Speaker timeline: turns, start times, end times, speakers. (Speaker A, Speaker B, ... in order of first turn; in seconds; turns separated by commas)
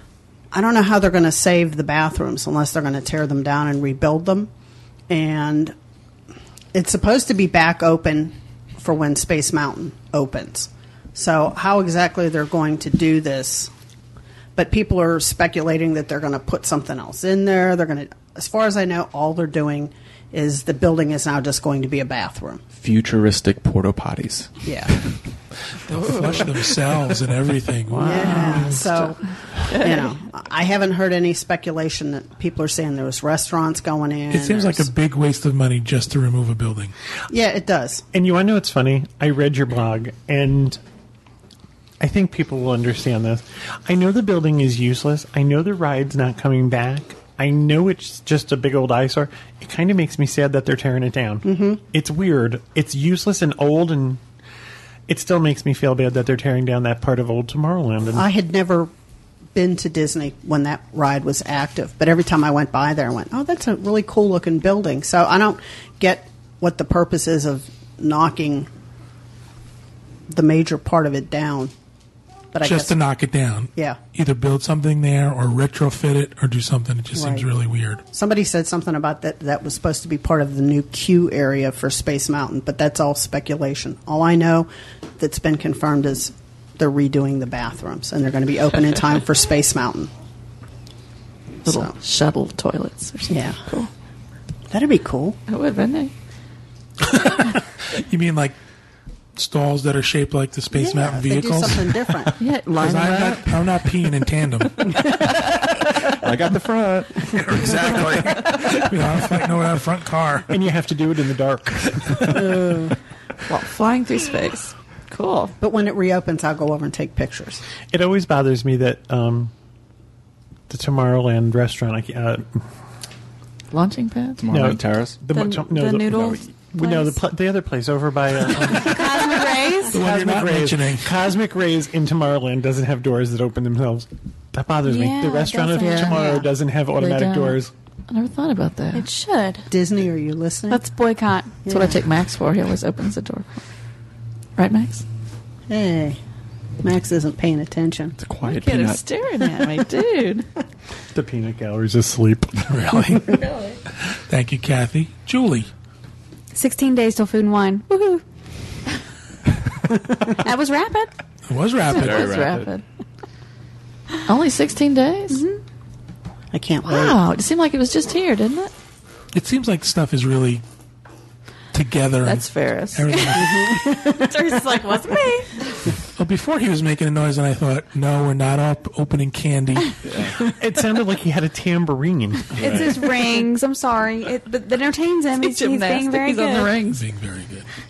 Speaker A: 0.5-4.5, Speaker A: 5.1-5.7, Speaker A: 6.7-13.7, Speaker A: 14.6-22.6, Speaker B: 22.8-25.1, Speaker A: 24.6-24.9, Speaker C: 25.9-28.8, Speaker D: 26.0-26.4, Speaker D: 27.9-30.1, Speaker A: 28.0-34.9, Speaker C: 34.3-36.9, Speaker A: 37.3-38.0, Speaker E: 38.1-40.8, Speaker E: 42.0-54.2, Speaker A: 51.4-51.8, Speaker E: 55.1-58.3, Speaker A: 58.1-58.9, Speaker A: 59.5-68.7, Speaker A: 70.3-71.7, Speaker A: 72.5-72.9, Speaker C: 72.6-78.0, Speaker A: 77.1-77.5, Speaker A: 78.1-90.1, Speaker D: 91.6-93.9, Speaker A: 91.7-91.9, Speaker A: 93.3-93.6, Speaker A: 94.7-95.4, Speaker D: 95.5-96.1, Speaker C: 97.1-98.5, Speaker C: 99.3-105.0, Speaker A: 100.7-102.4, Speaker D: 102.4-103.6, Speaker B: 106.0-108.7, Speaker C: 107.3-110.5, Speaker E: 110.5-112.5, Speaker A: 112.3-112.9, Speaker D: 113.5-115.5, Speaker A: 115.6-117.6, Speaker E: 117.9-119.5, Speaker E: 120.7-122.7, Speaker D: 123.7-124.4, Speaker B: 124.4-125.2, Speaker E: 124.5-137.7, Speaker F: 125.3-127.2, Speaker F: 128.5-130.0, Speaker C: 129.9-131.1, Speaker F: 134.8-136.4, Speaker D: 135.8-136.2, Speaker D: 137.0-139.1, Speaker F: 138.9-139.7, Speaker A: 139.7-140.8, Speaker F: 140.7-141.6, Speaker A: 141.6-142.0, Speaker D: 141.7-143.6, Speaker D: 144.6-145.0, Speaker A: 145.7-146.2, Speaker A: 146.8-148.2, Speaker B: 148.2-149.0, Speaker D: 148.4-150.5, Speaker E: 151.1-153.1, Speaker C: 152.7-153.4, Speaker C: 154.1-155.7, Speaker F: 156.5-158.2, Speaker F: 160.3-161.1, Speaker C: 161.5-162.4, Speaker B: 161.9-162.7, Speaker D: 161.9-162.8, Speaker D: 164.2-165.4, Speaker F: 165.3-165.6, Speaker A: 166.5-167.2, Speaker D: 166.8-168.7, Speaker C: 169.3-170.6, Speaker C: 171.7-173.8, Speaker D: 172.2-173.3, Speaker F: 173.1-175.8, Speaker A: 173.7-174.1, Speaker C: 176.1-179.9, Speaker B: 180.0-180.4, Speaker E: 180.4-182.8, Speaker B: 182.6-182.9, Speaker F: 182.6-186.7, Speaker D: 185.4-187.0, Speaker C: 186.9-187.7